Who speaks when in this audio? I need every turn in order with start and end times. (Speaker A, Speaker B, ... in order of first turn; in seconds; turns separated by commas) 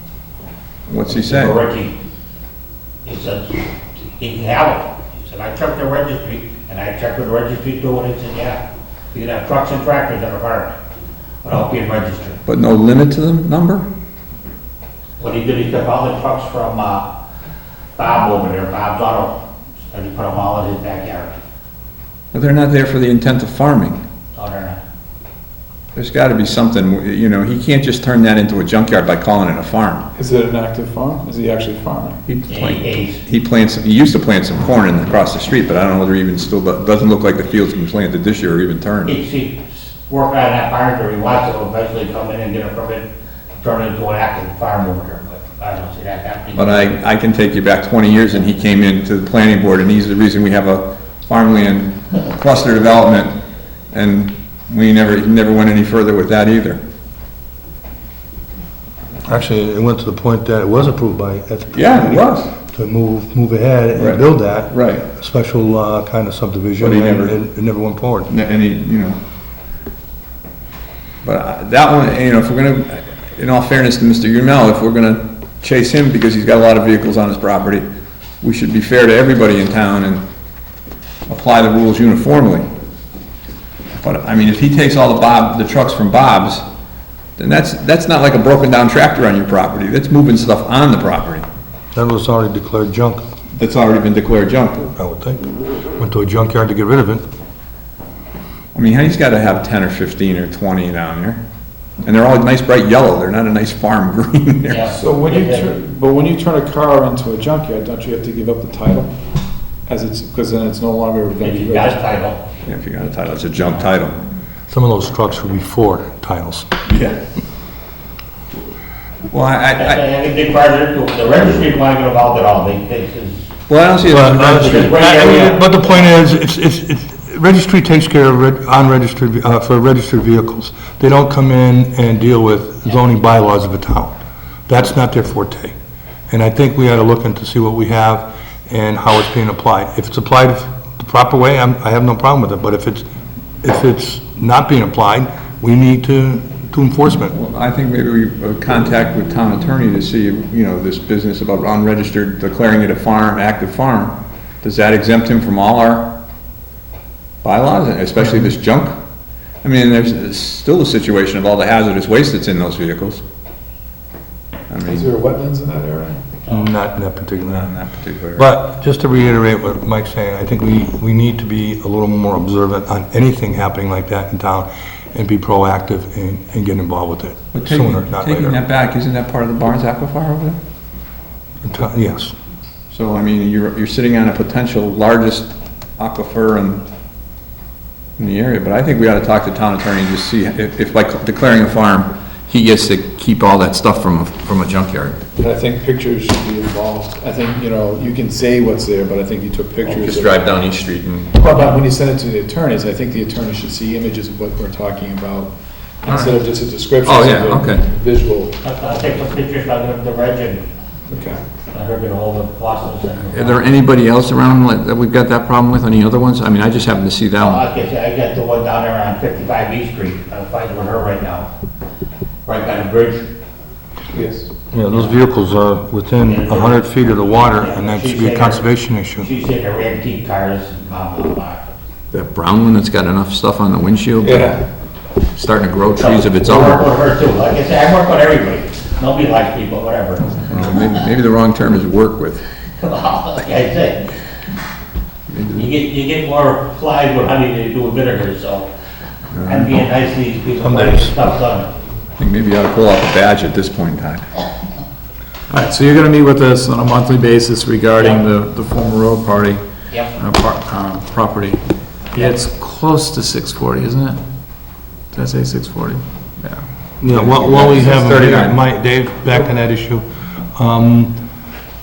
Speaker A: 0.9-1.6, Speaker B: 1.1-1.9, Speaker B: 3.0-3.6, Speaker B: 4.2-8.6, Speaker B: 9.1-10.7, Speaker B: 11.4-12.4, Speaker A: 12.4-13.9, Speaker B: 15.2-17.1, Speaker B: 17.9-19.4, Speaker B: 19.9-21.4, Speaker A: 22.3-24.0, Speaker B: 24.3-24.8, Speaker A: 25.9-30.1, Speaker C: 30.1-32.2, Speaker A: 32.3-39.1, Speaker B: 32.5-33.2, Speaker B: 39.0-47.0, Speaker A: 46.5-53.4, Speaker A: 53.9-56.8, Speaker D: 59.3-68.3, Speaker A: 61.7-62.5, Speaker A: 64.0-65.1, Speaker A: 66.8-67.4, Speaker A: 68.3-69.2, Speaker A: 71.2-77.8, Speaker A: 78.4-80.2, Speaker A: 81.3-82.7, Speaker A: 84.0-86.6, Speaker A: 87.4-91.4, Speaker D: 91.9-93.2, Speaker A: 93.5-94.9, Speaker D: 95.0-97.2, Speaker A: 98.7-101.4, Speaker A: 102.0-104.9, Speaker B: 104.7-105.7, Speaker C: 104.9-109.1, Speaker C: 109.9-112.0, Speaker B: 111.4-112.4, Speaker A: 112.6-114.2, Speaker D: 114.7-116.7, Speaker A: 116.9-117.2, Speaker A: 119.3-120.0, Speaker B: 119.8-123.5, Speaker A: 123.7-125.0, Speaker D: 124.1-135.7, Speaker B: 124.5-125.8, Speaker D: 136.3-143.0, Speaker D: 143.6-147.3, Speaker A: 147.3-156.1, Speaker A: 157.4-159.0, Speaker A: 159.6-163.2, Speaker A: 164.7-165.1, Speaker C: 164.8-166.3, Speaker D: 166.5-167.7, Speaker A: 167.4-168.5, Speaker D: 168.4-178.6, Speaker A: 177.5-180.6, Speaker D: 181.6-182.3, Speaker A: 182.9-186.8, Speaker A: 188.2-195.2, Speaker C: 195.4-200.4, Speaker A: 199.8-201.4, Speaker C: 201.3-208.5, Speaker A: 206.1-206.4, Speaker A: 207.0-207.9, Speaker B: 208.6-210.6, Speaker C: 211.1-211.4, Speaker B: 211.7-213.7, Speaker A: 213.3-217.6, Speaker B: 217.3-221.5, Speaker B: 222.4-223.2, Speaker C: 224.1-224.5, Speaker D: 224.7-229.3, Speaker B: 226.2-228.7, Speaker B: 229.2-231.7, Speaker A: 232.1-234.5, Speaker C: 234.2-234.6, Speaker A: 235.3-236.9, Speaker B: 236.0-240.8, Speaker A: 240.4-242.4, Speaker B: 242.8-244.1, Speaker A: 245.3-245.7, Speaker B: 245.5-248.7, Speaker A: 249.3-249.7, Speaker B: 249.4-251.7, Speaker D: 250.6-251.1, Speaker A: 252.2-254.3, Speaker C: 255.5-259.6, Speaker C: 260.1-261.6, Speaker C: 262.1-264.2, Speaker C: 265.1-266.6, Speaker D: 267.0-270.0, Speaker A: 267.1-268.6, Speaker D: 270.5-271.2